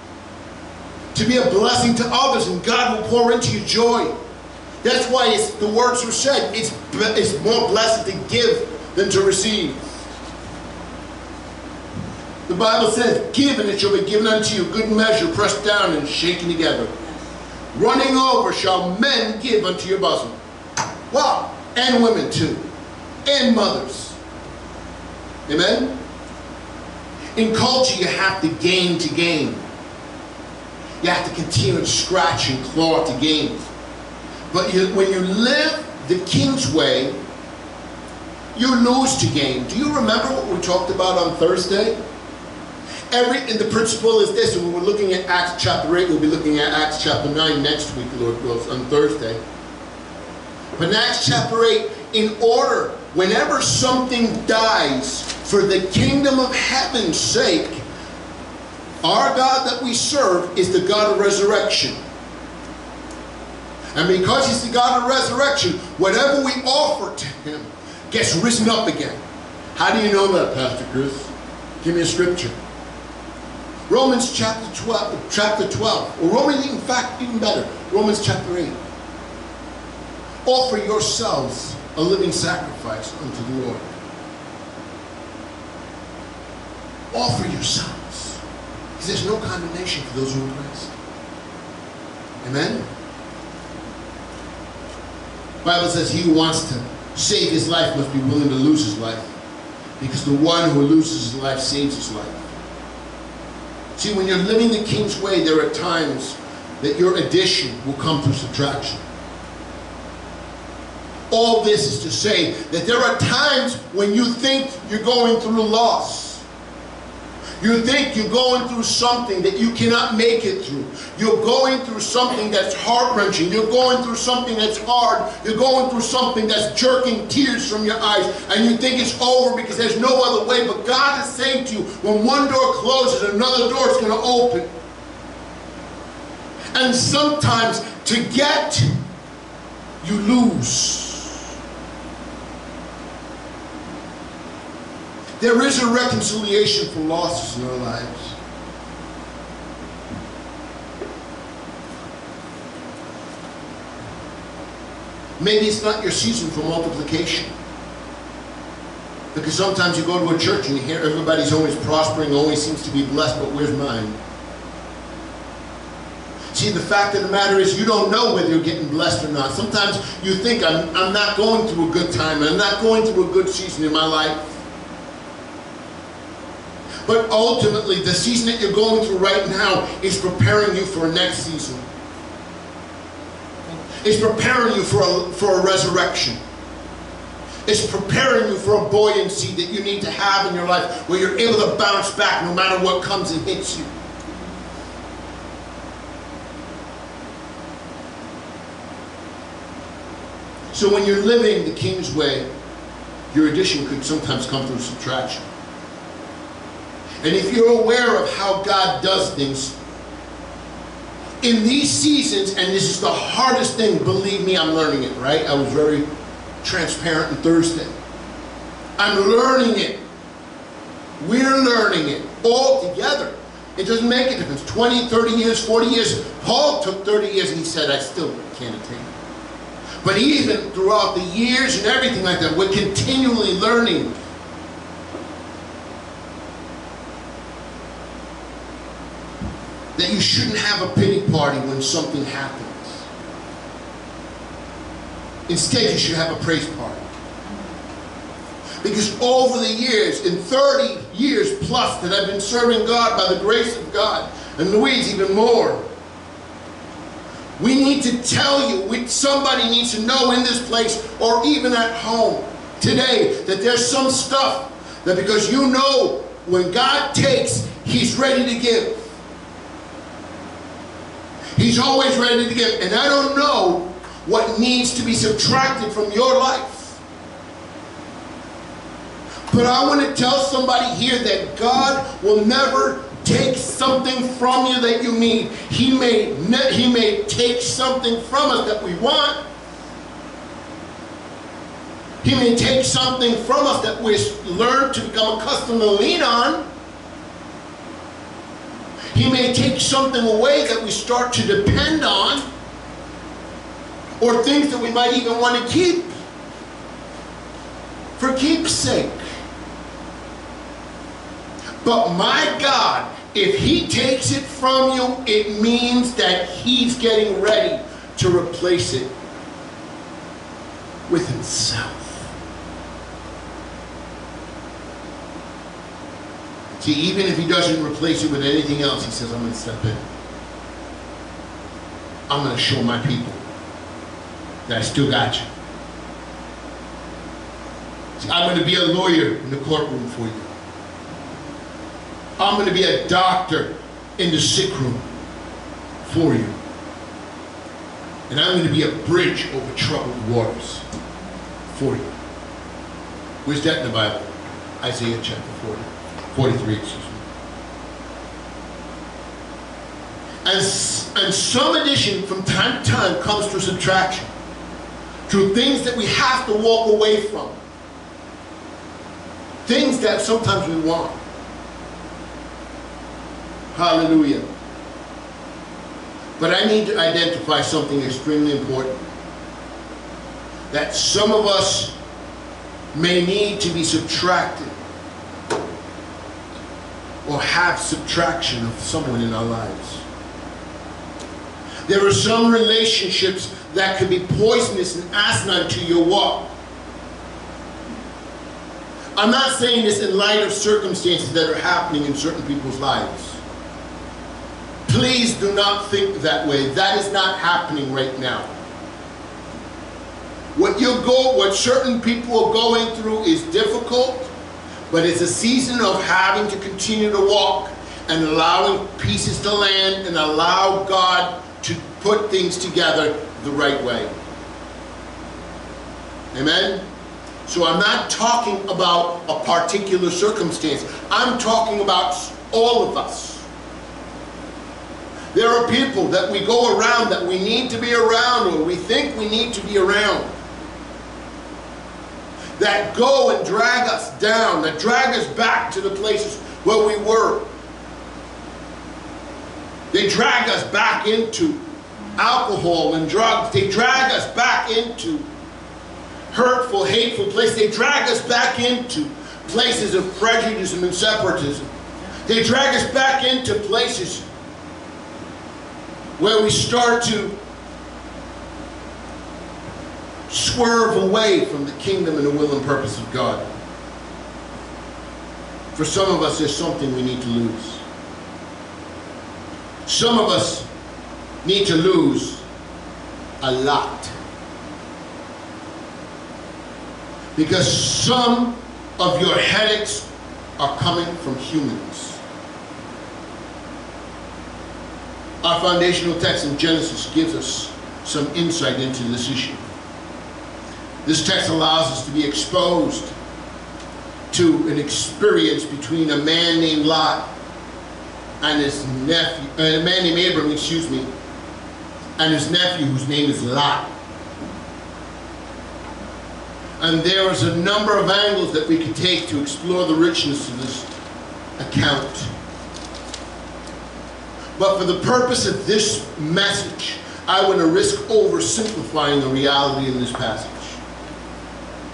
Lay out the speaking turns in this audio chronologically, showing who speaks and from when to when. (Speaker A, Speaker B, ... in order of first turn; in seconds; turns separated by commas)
Speaker A: 1.1-4.1, Speaker A: 4.8-9.8, Speaker A: 12.5-16.9, Speaker A: 17.7-20.4, Speaker A: 21.1-22.6, Speaker A: 23.2-24.2, Speaker A: 25.5-26.0, Speaker A: 27.4-29.6, Speaker A: 31.0-33.7, Speaker A: 34.5-37.2, Speaker A: 38.5-42.0, Speaker A: 43.1-49.4, Speaker A: 50.8-57.8, Speaker A: 59.0-62.0, Speaker A: 63.9-69.2, Speaker A: 69.7-71.3, Speaker A: 71.8-72.5, Speaker A: 73.9-78.8, Speaker A: 80.4-83.9, Speaker A: 87.1-88.4, Speaker A: 89.0-90.9, Speaker A: 92.4-92.9, Speaker A: 95.6-99.3, Speaker A: 100.0-102.5, Speaker A: 104.0-109.0, Speaker A: 111.3-116.4, Speaker A: 117.6-134.7, Speaker A: 136.7-138.9, Speaker A: 140.0-141.4, Speaker A: 145.4-148.4, Speaker A: 155.4-157.5, Speaker A: 159.3-164.2, Speaker A: 166.5-174.6, Speaker A: 177.0-181.9, Speaker A: 184.0-186.4, Speaker A: 187.7-193.9, Speaker A: 200.7-202.5, Speaker A: 203.3-205.5, Speaker A: 207.2-209.7, Speaker A: 211.4-216.1, Speaker A: 216.6-217.9, Speaker A: 219.0-220.0, Speaker A: 221.2-229.1, Speaker A: 230.0-234.2, Speaker A: 239.9-243.1, Speaker A: 245.5-247.0, Speaker A: 248.8-255.8, Speaker A: 257.6-269.1, Speaker A: 271.6-277.0, Speaker A: 279.5-289.4, Speaker A: 292.2-296.6, Speaker A: 299.1-302.5, Speaker A: 304.2-306.1, Speaker A: 308.2-309.2, Speaker A: 311.8-319.1, Speaker A: 321.1-322.3, Speaker A: 326.7-330.0, Speaker A: 332.3-333.4, Speaker A: 334.7-335.5, Speaker A: 338.2-340.5, Speaker A: 342.4-345.1, Speaker A: 346.0-346.5, Speaker A: 348.3-350.8, Speaker A: 351.7-352.1, Speaker A: 353.4-357.2, Speaker A: 360.4-364.3, Speaker A: 365.3-367.6, Speaker A: 369.6-371.2, Speaker A: 373.7-374.4, Speaker A: 376.4-379.0, Speaker A: 380.7-381.9, Speaker A: 382.9-384.8, Speaker A: 387.2-390.0, Speaker A: 391.9-396.5, Speaker A: 399.1-403.4, Speaker A: 404.9-408.5, Speaker A: 410.5-414.3, Speaker A: 414.9-424.1, Speaker A: 426.3-426.8, Speaker A: 427.4-433.4, Speaker A: 435.3-440.3, Speaker A: 442.6-447.5, Speaker A: 449.9-451.6, Speaker A: 452.1-455.3, Speaker A: 456.3-461.7, Speaker A: 462.2-464.2, Speaker A: 466.2-467.4, Speaker A: 470.3-473.4, Speaker A: 475.7-477.8, Speaker A: 479.9-480.7, Speaker A: 481.4-482.4, Speaker A: 483.4-484.1, Speaker A: 487.4-492.2, Speaker A: 495.4-499.6, Speaker A: 501.0-503.1, Speaker A: 504.3-507.3, Speaker A: 508.4-511.1, Speaker A: 512.2-513.9, Speaker A: 516.8-520.9, Speaker A: 521.6-522.3, Speaker A: 524.6-530.8